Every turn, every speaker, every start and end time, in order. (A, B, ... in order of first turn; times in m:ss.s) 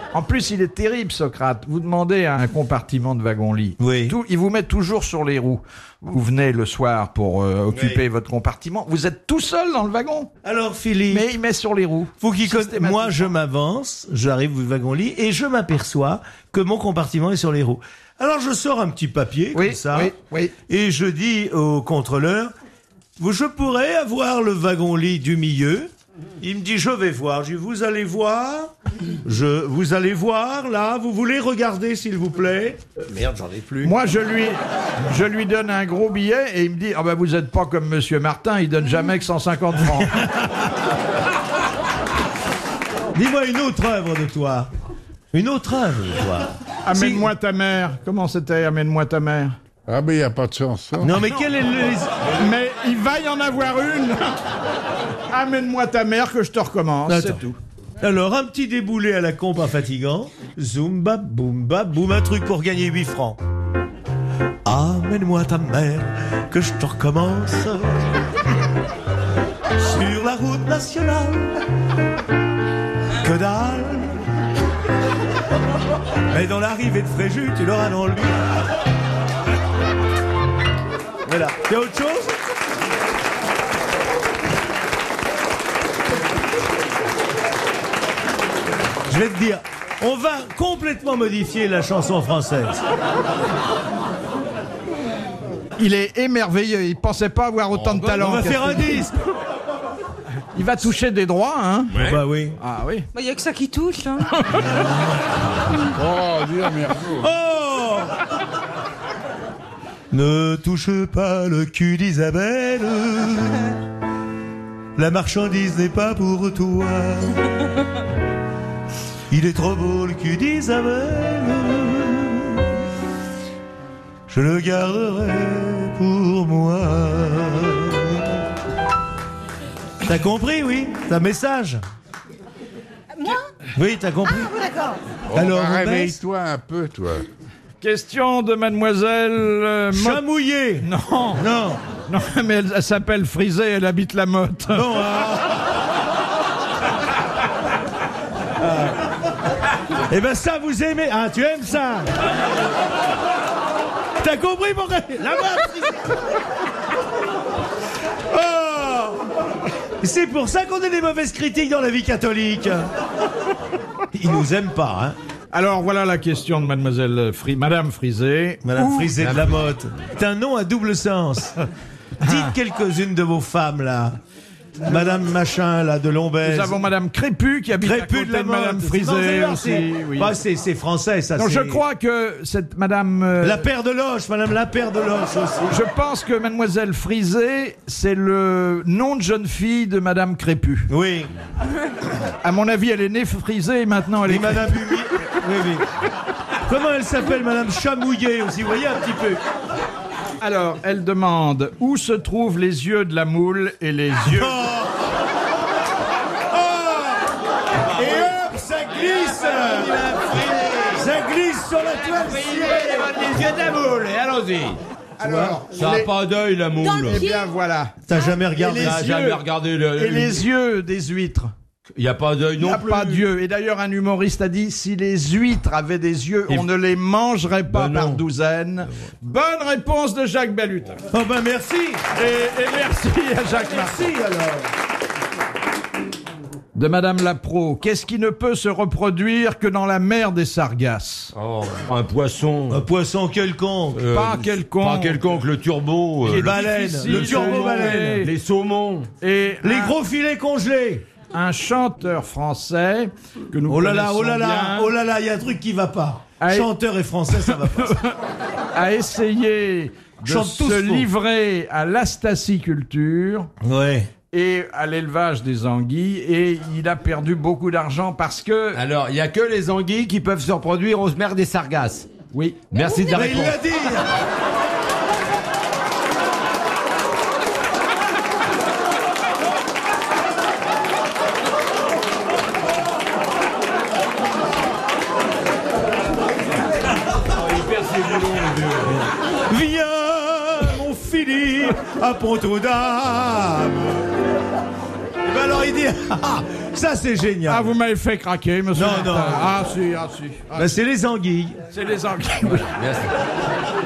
0:00.1-0:10.3 A
0:03.8-0:04.2 B
0:07.7-0:08.0 B
0:10.4-0:11.3 B
0:11.1-0:13.3 A
0:12.2-0:20.2 B
0:19.5-0:20.5 A
0:20.7-0:22.5 B
0:23.2-0:28.7 B
0:29.2-0:34.0 B
0:33.8-0:40.5 A
0:43.1-0:44.7 B
0:45.3-0:47.3 B
0:46.8-0:49.6 A
0:49.9-0:51.2 C
0:51.0-0:52.3 B
0:52.2-0:54.4 A
0:55.3-0:57.6 A
0:57.1-0:57.4 B
0:58.0-1:03.4 B
1:04.6-1:08.3 B
1:09.8-1:11.6 B
1:13.2-1:14.2 B
1:16.3-1:18.5 B
1:21.2-1:22.3 B
1:29.1-1:32.8 B
1:35.8-1:39.1 A
1:37.7-1:38.4 D
1:38.1-1:39.2 B
1:40.6-1:42.0 A
1:41.9-1:42.2 D
1:42.0-1:42.6 B
1:42.6-1:43.1 A
1:43.1-1:44.3 E
1:44.4-1:44.8 A
1:44.7-1:45.0 B
1:45.9-1:47.3 C
1:47.2-1:48.2 B
1:50.1-1:53.8 B
1:55.0-1:57.6 B
1:59.3-2:02.8 B
2:04.3-2:08.5 B
2:10.0-2:11.8 B
2:13.2-2:13.5 E
2:13.8-2:14.5 B
2:14.2-2:15.0 E
2:15.3-2:17.2 C
2:15.3-2:16.2 B
2:17.8-2:20.2 A
2:19.9-2:21.8 B
2:20.8-2:21.5 A
2:22.0-2:25.0 A
2:24.7-2:25.8 B
2:28.6-2:28.9 B
2:30.1-2:32.3 B
2:34.2-2:36.2 B
2:38.3-2:39.2 B
2:40.0-2:42.9 B
2:44.1-2:45.2 B
2:45.5-2:49.1 A
2:48.6-2:51.7 B
2:49.2-2:49.8 D
2:52.2-2:54.2 B
2:52.2-2:52.5 A
2:54.8-2:56.8 B
2:56.4-3:00.4 A
2:57.7-3:01.8 B
3:01.4-3:03.6 A
3:03.4-3:05.8 B
3:05.7-3:10.9 A
3:10.9-3:11.3 B
3:12.4-3:15.0 A
3:14.2-3:15.9 B
3:16.6-3:19.4 B
3:20.4-3:24.7 A
3:24.2-3:25.1 B
3:26.5-3:33.4 B
3:28.0-3:28.2 D
3:29.4-3:31.0 D
3:32.1-3:34.8 D
3:35.2-3:36.1 A
3:35.2-3:35.6 B
3:35.7-3:37.3 D
3:36.8-3:37.5 E
3:37.0-3:38.0 A
3:38.0-3:39.2 B
3:38.5-3:39.4 A
3:38.8-3:40.5 D
3:40.0-3:41.5 A
3:42.0-3:43.2 D
3:42.6-3:51.0 A
3:47.7-3:48.2 D
3:51.1-3:52.0 B
3:52.1-3:54.0 A
3:53.4-3:54.7 B
3:56.8-4:01.3 A
4:01.3-4:02.9 D
4:02.7-4:04.0 B
4:03.9-4:09.1 D
4:04.1-4:05.3 A
4:06.2-4:08.3 A
4:06.3-4:08.3 B
4:09.2-4:10.0 A
4:09.6-4:11.1 B
4:11.3-4:14.9 A
4:13.6-4:18.0 B
4:16.4-4:16.7 A
4:17.3-4:18.1 A
4:18.7-4:23.5 A
4:20.2-4:21.1 B
4:23.6-4:24.1 B
4:24.3-4:28.8 A
4:28.7-4:32.1 D
4:32.3-4:32.8 A
4:32.7-4:33.6 D
4:32.8-4:33.0 E
4:33.1-4:34.1 B
4:47.4-4:49.0 D
4:48.9-4:54.1 B
4:55.3-4:57.8 B
4:57.5-5:00.7 A
4:58.7-4:59.6 B
5:00.5-5:01.6 B
5:01.7-5:02.7 A
5:02.7-5:03.1 D